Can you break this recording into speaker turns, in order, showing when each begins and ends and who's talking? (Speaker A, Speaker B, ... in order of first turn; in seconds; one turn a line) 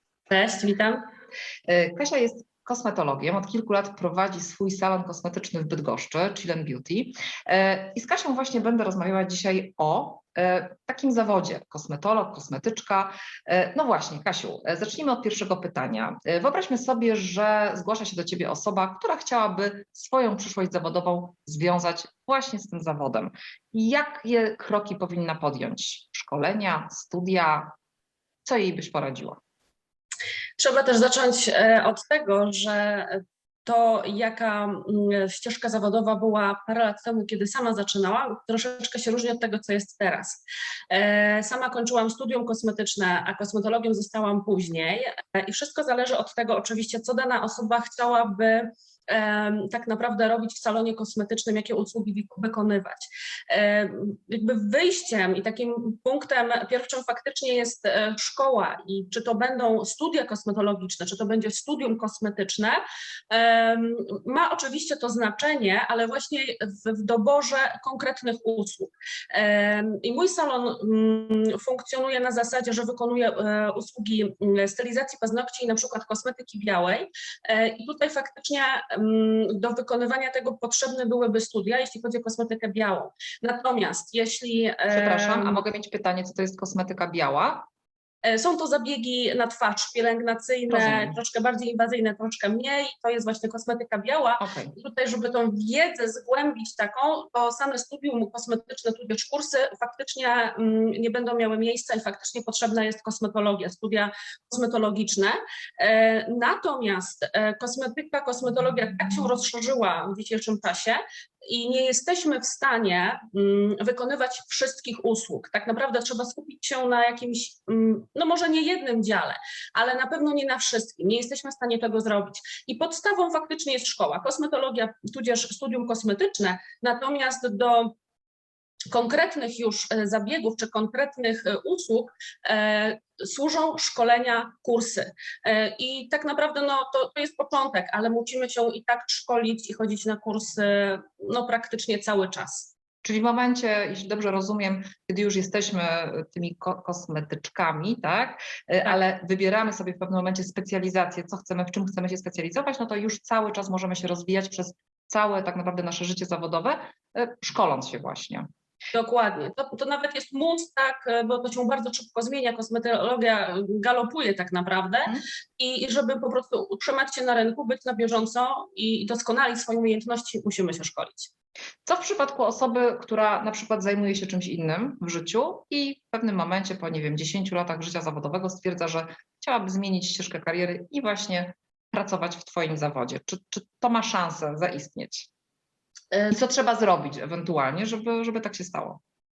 Speaker A: 0.3-1.1
Speaker B: 1.7-27.7
Speaker B: 28.4-29.4
Speaker A: 30.6-85.6
Speaker B: 84.9-87.6
Speaker A: 88.2-127.9
Speaker B: 90.7-91.2
Speaker B: 94.4-94.7
Speaker A: 128.9-142.7
Speaker B: 143.0-158.5
Speaker A: 158.9-171.3
Speaker B: 171.8-185.3
Speaker B: 186.2-189.0